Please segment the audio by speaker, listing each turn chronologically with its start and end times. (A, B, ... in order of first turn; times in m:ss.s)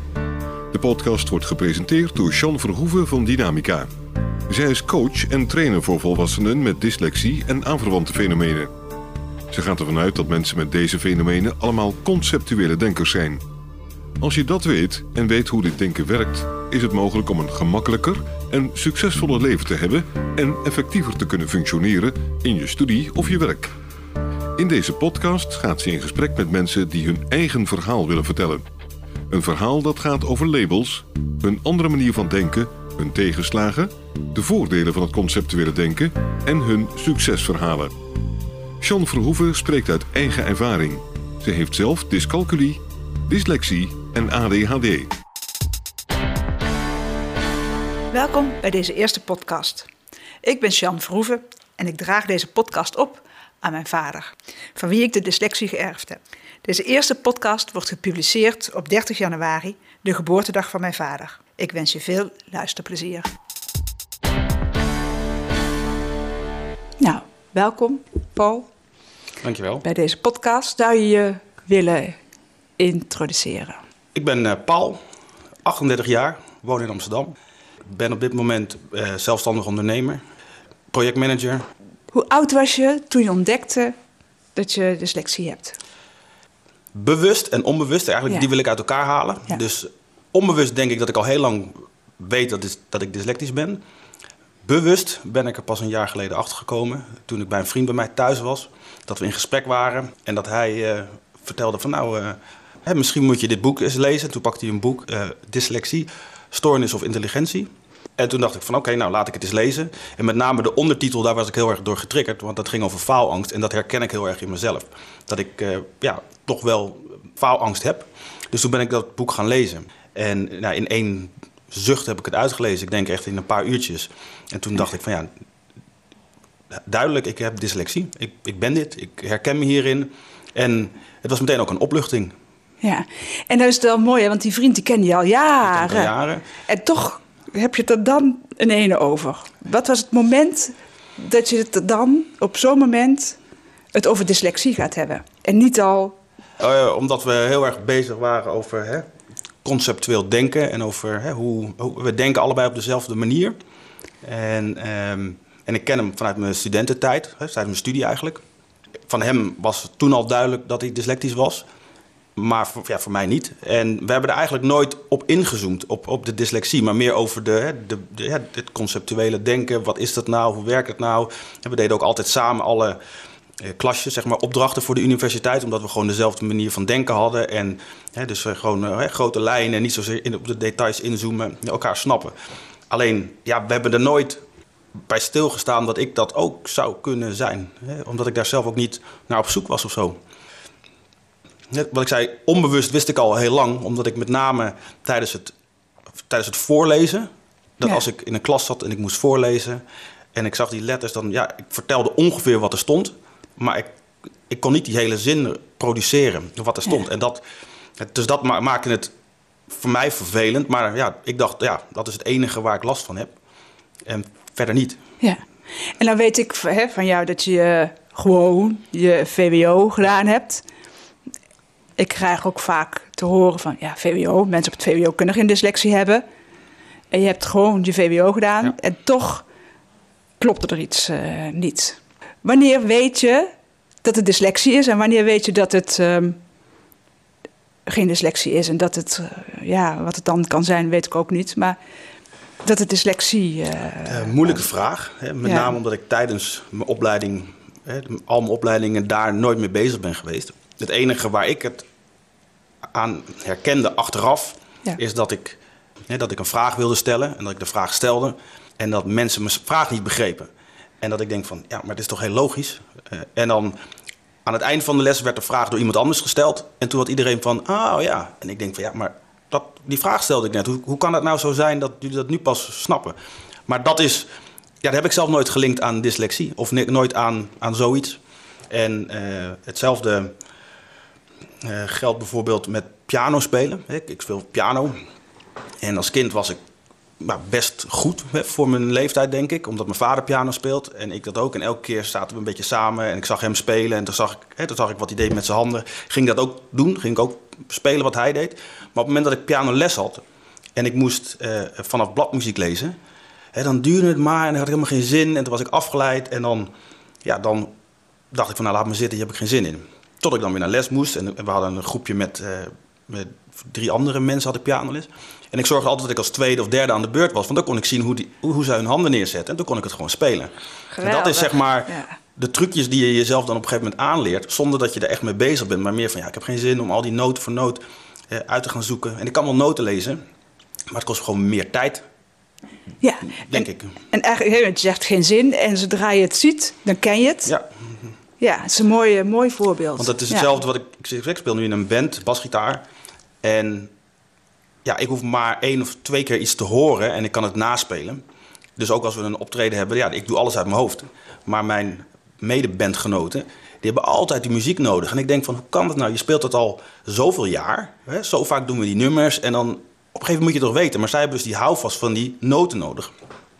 0:00.7-0:03.9 A
0:04.5-0:08.7 A
0:09.5-0:13.4 A
0:14.2-0:23.7 A
0:24.6-0:28.6 A
0:29.3-0:37.9 A
0:38.8-0:45.1 A
0:48.1-0:49.9 B
0:50.4-1:03.3 B
1:07.0-1:08.7 B
1:09.4-1:09.8 C
1:09.8-1:12.2 B
1:12.8-1:13.8 B
1:14.1-1:15.0 C
1:15.6-1:17.3 C
1:17.8-1:20.2 C
1:20.9-1:21.6 C
1:22.1-1:23.9 B
1:24.5-1:25.8 B
1:26.9-1:33.8 C
1:34.6-2:05.3 C
2:06.8-2:12.3 C
2:12.8-2:23.4 B
2:15.6-2:16.4 C
2:23.9-2:26.2 B
2:26.6-2:29.1 C
2:29.6-2:33.6 C
2:34.2-2:38.4 C
2:39.1-2:41.7 C
2:42.4-2:53.0 C
2:53.6-3:02.3 C
3:02.9-3:04.4 C
3:05.1-3:10.2 C
3:11.7-3:15.5 C
3:16.3-3:19.8 C
3:20.3-3:23.9 C
3:24.5-3:27.4 C
3:28.0-3:29.1 C
3:29.7-3:33.4 C
3:34.0-3:35.0 C
3:35.2-3:40.6 B
3:42.0-3:46.2 B
3:47.1-3:49.4 B
3:50.4-3:53.5 B
3:54.0-3:56.4 B
3:57.8-4:01.8 B
4:02.6-4:04.5 B
4:04.0-4:11.9 C
4:05.4-4:05.7 B
4:12.9-4:20.5 C
4:21.0-4:23.8 C
4:24.4-4:34.3 C
4:34.8-4:40.4 C
4:41.6-4:45.0 C
4:45.8-4:46.6 C
4:47.2-5:00.2 C
5:00.7-5:03.0 C
5:03.5-5:06.7 C
5:07.2-5:07.7 C
5:08.3-5:30.2 C
5:20.9-5:22.1 B
5:30.9-5:32.0 C
5:33.0-5:37.5 B
5:33.4-5:33.9 C
5:38.4-5:40.5 B
5:40.0-5:42.8 C
5:43.4-5:43.9 C
5:44.8-5:48.2 C
5:48.8-6:03.1 C